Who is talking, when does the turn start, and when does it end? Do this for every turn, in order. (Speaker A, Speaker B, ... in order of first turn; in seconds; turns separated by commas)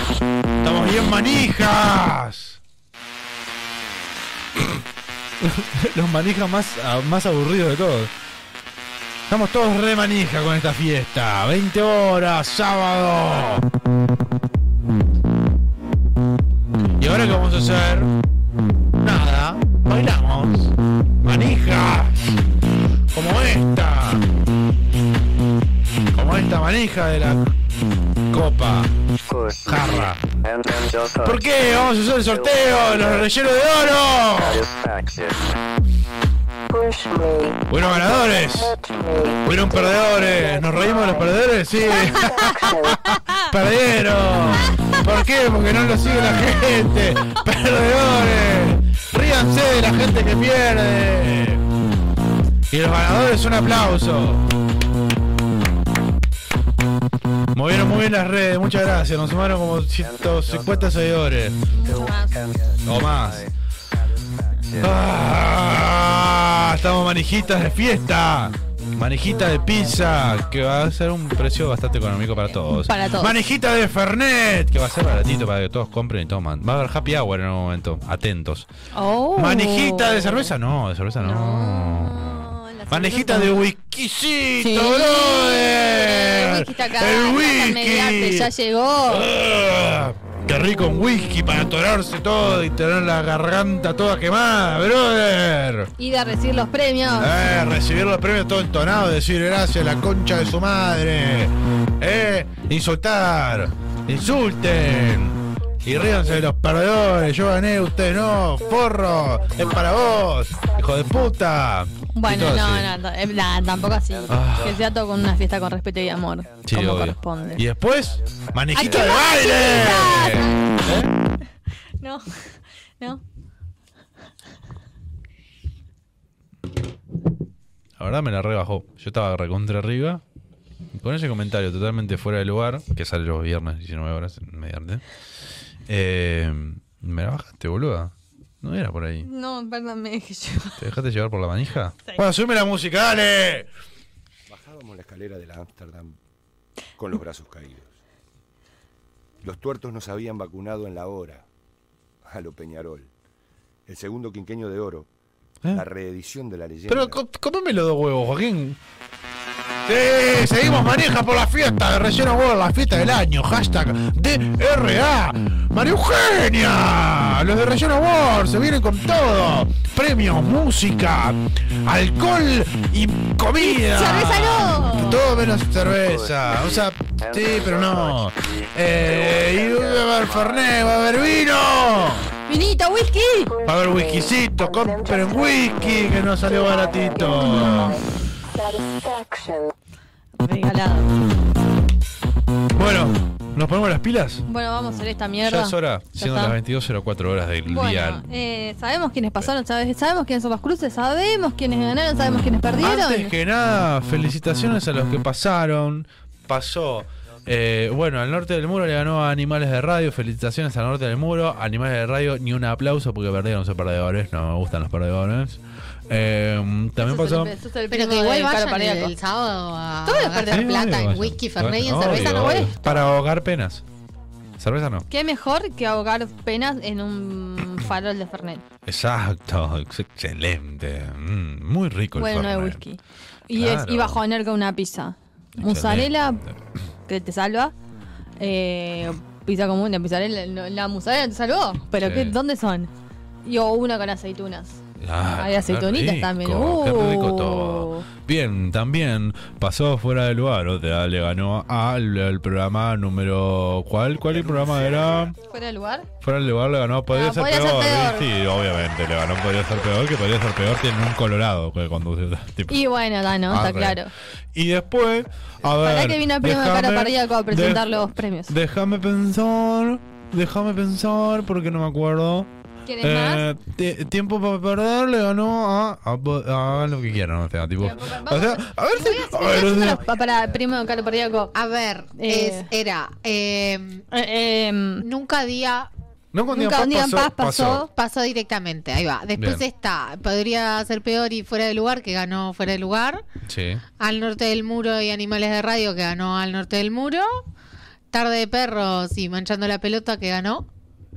Speaker A: 0.6-2.6, Speaker A: 4.5-4.8, Speaker A: 5.4-8.1, Speaker A: 9.3-13.6, Speaker A: 17.0-18.1, Speaker A: 19.0-22.4, Speaker A: 23.1-24.2, Speaker A: 26.1-27.5, Speaker A: 28.3-28.9, Speaker B: 29.3-33.3, Speaker A: 29.6-30.2, Speaker A: 31.2-34.6, Speaker B: 34.3-35.6, Speaker C: 36.7-43.1, Speaker A: 37.7-38.7, Speaker A: 39.4-51.6, Speaker D: 42.2-42.4, Speaker D: 43.0-43.4, Speaker A: 52.7-54.4, Speaker A: 57.5-61.6, Speaker B: 60.0-61.0, Speaker D: 61.7-62.3, Speaker B: 61.8-63.5, Speaker A: 62.8-63.5, Speaker B: 64.5-65.1, Speaker A: 64.8-78.7, Speaker D: 72.7-73.3, Speaker D: 78.9-80.5, Speaker A: 79.3-82.1, Speaker D: 81.2-83.5, Speaker A: 82.9-88.5, Speaker D: 84.6-89.2, Speaker A: 89.0-95.9, Speaker D: 96.0-97.3, Speaker A: 97.2-112.9, Speaker C: 108.7-110.1, Speaker D: 112.1-117.6, Speaker B: 114.2-114.7, Speaker A: 114.3-114.8, Speaker A: 116.7-121.1, Speaker D: 118.7-120.7, Speaker D: 122.0-122.3, Speaker A: 128.0-130.2, Speaker A: 130.9-135.0, Speaker A: 135.9-139.3, Speaker D: 139.2-140.8, Speaker A: 140.8-143.7, Speaker E: 144.5-146.2, Speaker E: 147.0-148.0, Speaker E: 149.4-151.4, Speaker E: 152.2-153.1, Speaker E: 153.8-155.1, Speaker E: 155.7-157.2, Speaker A: 156.9-158.8, Speaker A: 159.8-182.2, Speaker D: 173.6-175.2, Speaker B: 175.8-181.4, Speaker D: 182.5-183.5, Speaker C: 183.5-189.7, Speaker A: 183.6-188.0, Speaker D: 190.4-191.1, Speaker A: 192.7-194.4, Speaker D: 194.4-196.5, Speaker A: 195.4-198.2, Speaker D: 197.7-203.3, Speaker A: 202.8-217.5, Speaker D: 217.0-219.1, Speaker F: 217.9-222.7, Speaker D: 220.0-220.7, Speaker A: 220.5-223.8, Speaker D: 222.0-223.1, Speaker A: 224.6-225.1, Speaker D: 225.1-228.6, Speaker A: 228.8-232.8, Speaker D: 232.2-236.4, Speaker A: 233.5-234.2, Speaker A: 235.6-236.6, Speaker D: 237.1-237.7, Speaker D: 238.4-242.9, Speaker A: 242.0-242.3, Speaker D: 243.4-244.8, Speaker A: 245.0-255.3, Speaker D: 245.3-248.1, Speaker E: 254.3-255.1, Speaker D: 255.4-256.1, Speaker A: 256.2-262.8, Speaker D: 257.1-258.2, Speaker D: 262.7-264.1, Speaker A: 263.5-264.0, Speaker A: 264.5-272.5, Speaker D: 265.8-268.5, Speaker D: 272.9-273.5, Speaker A: 273.0-280.0, Speaker D: 277.8-281.5, Speaker F: 281.5-284.0, Speaker D: 282.1-282.7, Speaker D: 284.1-285.1, Speaker F: 285.0-285.9, Speaker A: 286.3-287.8, Speaker D: 286.5-287.9, Speaker F: 287.9-293.2, Speaker A: 289.4-289.6, Speaker A: 293.4-293.8, Speaker F: 294.0-297.4, Speaker F: 298.1-300.6